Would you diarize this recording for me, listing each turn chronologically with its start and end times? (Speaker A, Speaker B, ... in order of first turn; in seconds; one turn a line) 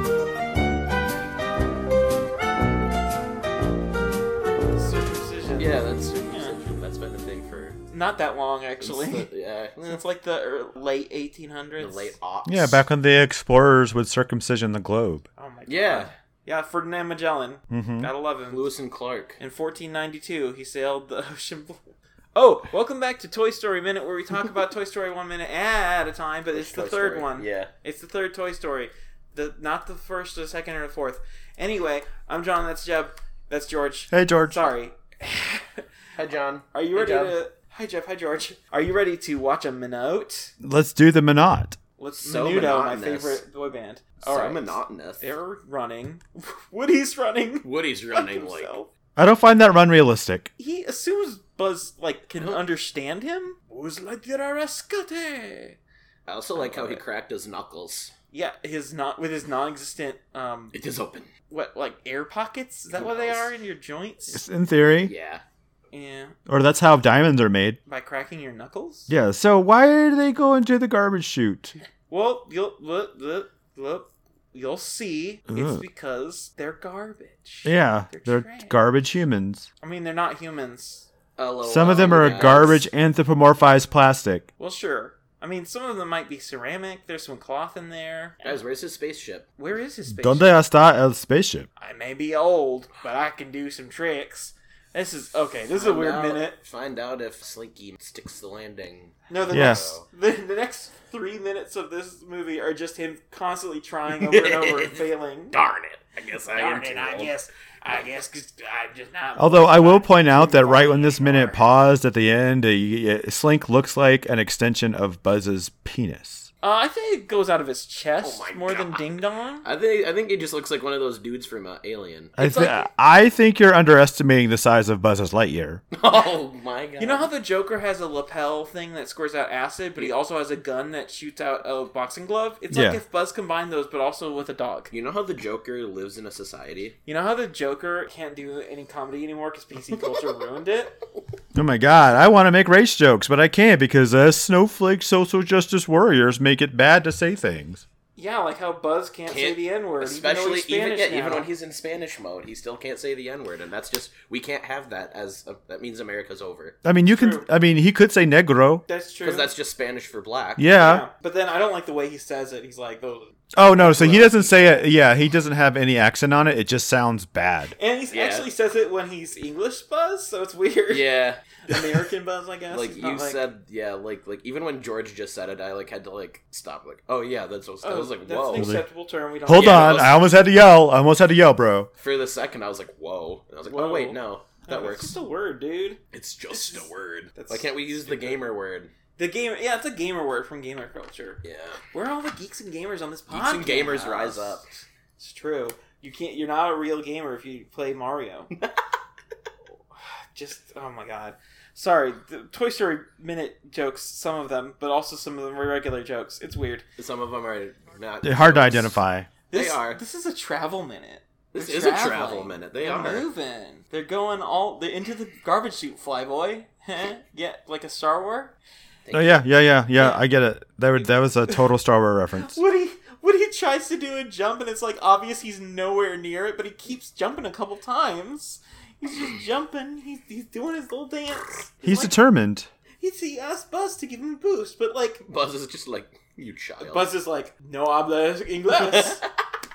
Speaker A: 4.7-6.5
Speaker B: 5.6-7.8
Speaker A: 7.9-9.3
Speaker B: 8.8-10.0
Speaker A: 9.8-12.1
Speaker B: 11.8-12.8
Speaker C: 12.4-15.2
Speaker A: 15.4-18.7
Speaker B: 15.7-16.1
Speaker C: 17.7-18.1
Speaker B: 18.5-19.4
Speaker A: 19.4-35.8
Speaker B: 26.5-27.7
Speaker C: 34.1-34.7
Speaker B: 36.1-37.4
Speaker A: 36.7-40.5
Speaker C: 40.6-41.8
Speaker A: 42.0-48.9
Speaker B: 42.2-43.4
Speaker B: 44.2-45.3
Speaker B: 47.6-48.7
Speaker C: 49.1-50.5
Speaker A: 50.6-55.8
Speaker B: 52.4-52.6
Speaker B: 56.2-58.1
Speaker A: 56.5-57.0
Speaker A: 58.3-60.8
Speaker B: 60.7-61.3
Speaker A: 61.5-64.4
Speaker B: 62.9-63.5
Speaker C: 64.3-65.1
Speaker B: 65.0-65.4
Speaker A: 65.9-66.3
Speaker C: 66.5-67.8
Speaker A: 67.9-69.1
Speaker C: 69.1-71.7
Speaker A: 72.1-78.8
Speaker C: 75.5-75.8
Speaker C: 77.6-79.7
Speaker A: 79.8-81.1
Speaker B: 81.4-82.8
Speaker C: 81.6-84.5
Speaker A: 81.8-82.8
Speaker A: 84.6-88.6
Speaker B: 88.4-89.5
Speaker A: 89.6-90.6
Speaker C: 90.1-91.7
Speaker A: 91.8-96.6
Speaker B: 95.7-100.0
Speaker A: 99.3-105.6
Speaker C: 99.5-99.8
Speaker B: 104.2-107.4
Speaker A: 106.5-111.7
Speaker C: 109.3-116.5
Speaker A: 116.6-119.7
Speaker B: 118.2-122.7
Speaker C: 122.4-125.8
Speaker A: 122.4-122.8
Speaker B: 125.9-127.3
Speaker A: 127.0-134.9
Speaker C: 132.7-133.0
Speaker B: 134.9-137.0
Speaker A: 137.1-141.0
Speaker C: 141.5-147.8
Speaker A: 148.2-151.5
Speaker B: 149.3-156.8
Speaker C: 156.8-158.8
Speaker A: 157.1-157.4
Speaker A: 158.9-159.5
Speaker B: 159.2-160.6
Speaker C: 160.6-161.1
Speaker A: 160.7-164.8
Speaker C: 163.5-167.8
Speaker B: 163.9-164.4
Speaker A: 167.8-171.1
Speaker B: 168.1-168.5
Speaker B: 170.9-171.8
Speaker A: 171.7-173.4
Speaker B: 172.7-178.7
Speaker A: 177.8-180.2
Speaker C: 178.5-178.9
Speaker C: 179.4-181.9
Speaker B: 179.5-180.2
Speaker B: 182.0-185.1
Speaker A: 183.6-188.5
Speaker B: 186.1-188.9
Speaker A: 189.2-194.7
Speaker B: 191.4-191.8
Speaker B: 193.3-194.6
Speaker A: 195.2-198.5
Speaker A: 199.9-206.8
Speaker B: 207.0-209.0
Speaker C: 208.2-209.3
Speaker A: 209.5-218.5
Speaker B: 209.5-210.0
Speaker B: 211.5-213.3
Speaker B: 219.0-219.4
Speaker C: 219.1-222.6
Speaker A: 219.9-220.2
Speaker A: 222.3-232.2
Speaker C: 231.8-232.7
Speaker A: 233.0-235.2
Speaker B: 235.2-237.1
Speaker A: 236.8-239.2
Speaker B: 238.7-239.2